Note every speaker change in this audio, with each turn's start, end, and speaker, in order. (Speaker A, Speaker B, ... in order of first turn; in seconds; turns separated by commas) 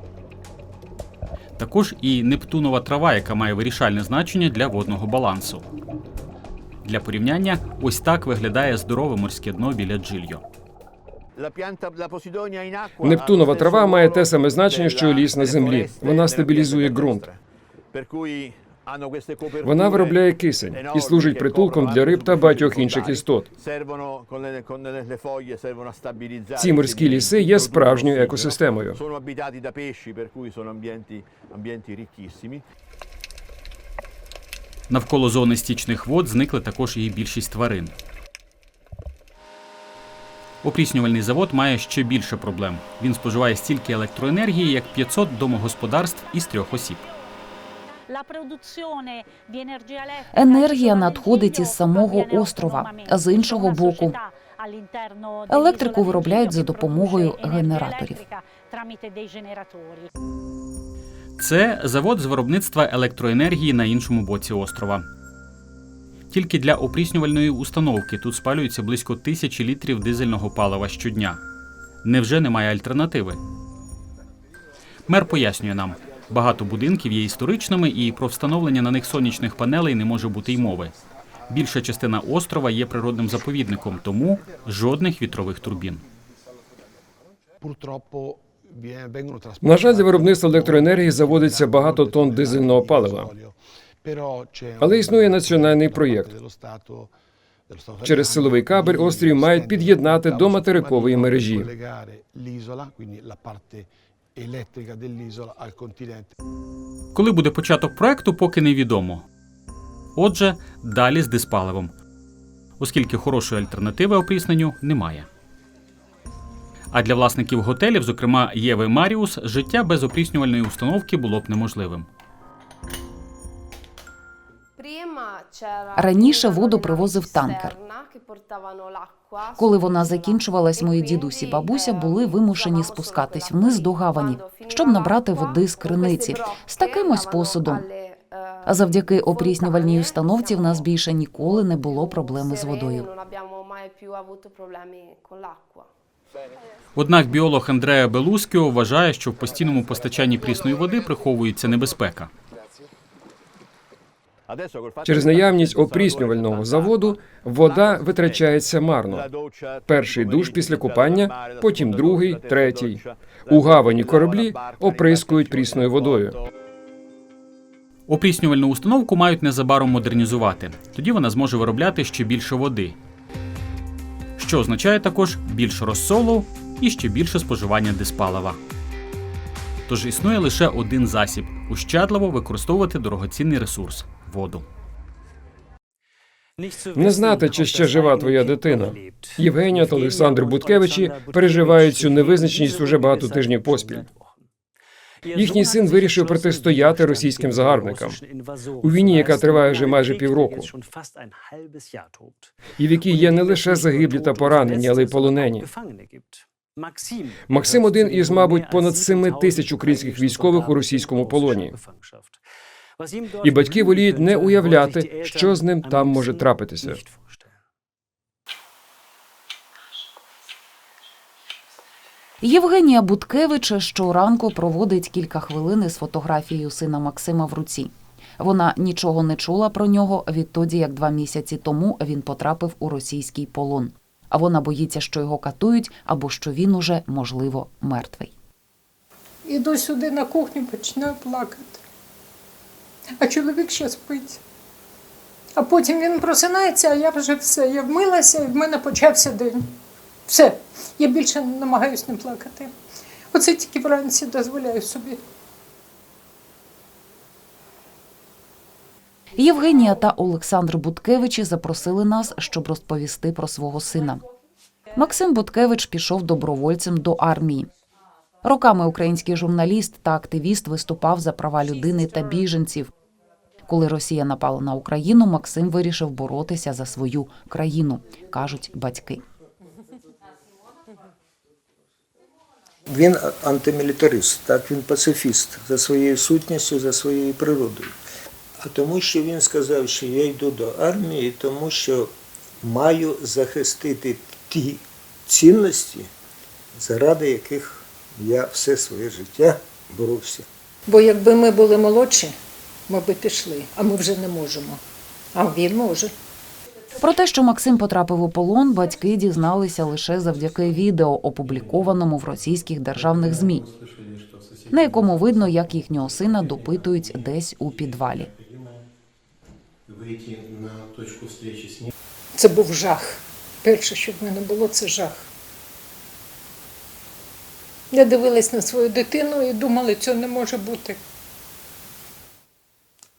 Speaker A: 1.6-5.6, Speaker A: 6.8-10.4, Speaker B: 13.0-17.3, Speaker B: 19.6-23.5, Speaker B: 26.6-29.0, Speaker A: 34.9-38.0, Speaker A: 40.6-47.0, Speaker C: 50.3-54.2, Speaker C: 55.5-58.2, Speaker A: 61.4-65.1, Speaker A: 66.3-71.4, Speaker A: 72.0-73.4, Speaker A: 75.1-80.9, Speaker A: 81.5-86.0, Speaker B: 89.6-93.3, Speaker B: 94.8-96.4, Speaker B: 98.0-101.7, Speaker A: 107.1-109.3, Speaker A: 110.2-111.9, Speaker A: 112.8-115.3, Speaker A: 116.9-122.1, Speaker C: 126.0-127.8, Speaker C: 129.6-137.9, Speaker C: 138.7-143.1, Speaker A: 147.0-152.3, Speaker B: 155.0-159.3, Speaker B: 159.9-166.4, Speaker A: 168.1-173.0, Speaker A: 174.4-178.6, Speaker A: 179.9-184.7, Speaker B: 186.9-194.1, Speaker B: 195.3-198.2, Speaker B: 198.8-200.7, Speaker B: 202.8-205.7, Speaker B: 207.5-211.8, Speaker B: 213.4-217.0, Speaker C: 222.4-238.3, Speaker D: 239.4-241.8, Speaker D: 243.2-244.4, Speaker D: 245.6-249.8, Speaker D: 250.3-252.7, Speaker D: 253.3-255.2, Speaker C: 259.4-264.2, Speaker C: 265.0-267.7, Speaker C: 268.4-272.9, Speaker C: 273.7-279.2, Speaker E: 282.9-288.0, Speaker E: 288.6-296.1, Speaker E: 296.7-300.5, Speaker D: 300.9-302.4, Speaker D: 302.9-304.8, Speaker D: 305.4-306.1, Speaker C: 307.0-313.7, Speaker C: 314.7-318.3, Speaker D: 322.4-325.3, Speaker D: 327.9-331.0